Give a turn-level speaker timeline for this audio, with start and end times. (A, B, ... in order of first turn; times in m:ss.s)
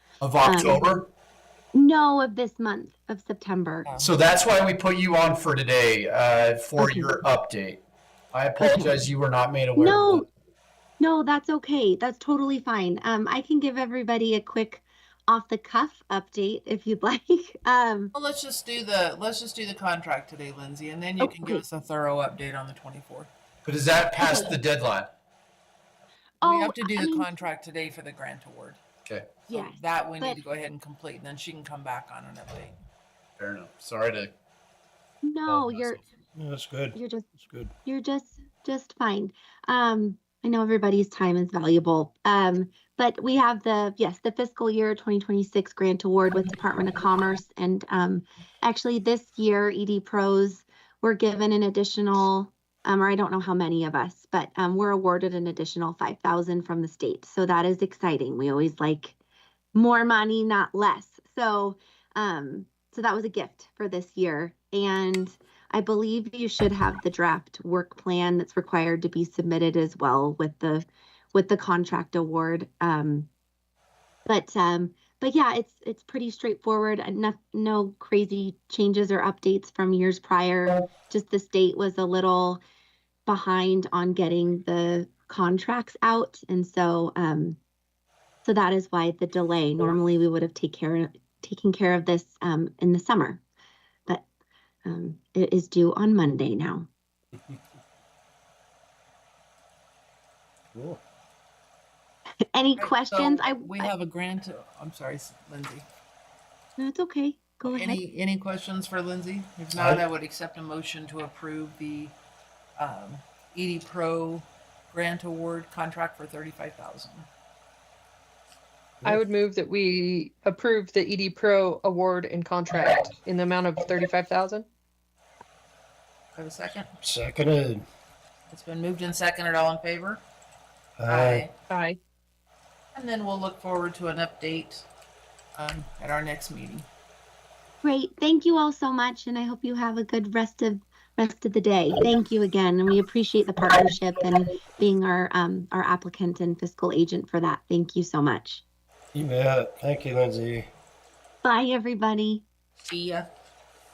0:00.2-0:01.1 A
0:00.4-0:00.8 B
0:01.7-0:03.9 B
0:03.8-0:04.1 C
0:04.0-0:10.2 A
0:06.8-0:07.1 B
0:08.6-0:09.0 B
0:09.8-0:10.3 B
0:11.0-0:18.1 B
0:18.1-0:23.3 C
0:21.2-0:21.6 B
0:23.6-0:25.1 A
0:24.2-0:24.5 B
0:26.4-0:27.3 B
0:26.4-0:28.8 C
0:29.5-0:30.4 B
0:29.5-0:32.7 C
0:33.4-0:34.3 A
0:35.2-0:36.0 B
0:36.3-0:37.7 D
0:36.9-0:37.3 B
0:37.8-0:59.2 B
0:59.7-1:13.3 B
1:14.3-1:22.6 B
1:23.2-1:27.6 B
1:28.4-1:33.4 B
1:34.8-1:36.9 B
1:40.7-1:41.0 D
1:42.5-1:43.9 B
1:42.8-1:45.8 C
1:46.8-1:48.0 B
1:47.6-1:52.2 C
1:52.8-1:57.3 C
1:59.0-2:04.7 E
2:06.3-2:06.9 C
2:07.0-2:07.8 D
2:08.5-2:10.2 C
2:11.0-2:11.4 D
2:11.1-2:11.5 C
2:11.7-2:12.0 E
2:12.9-2:14.8 C
2:15.6-2:16.9 C
2:17.8-2:28.6 B
2:29.1-2:30.7 D
2:31.4-2:32.4 B
2:32.8-2:33.3 C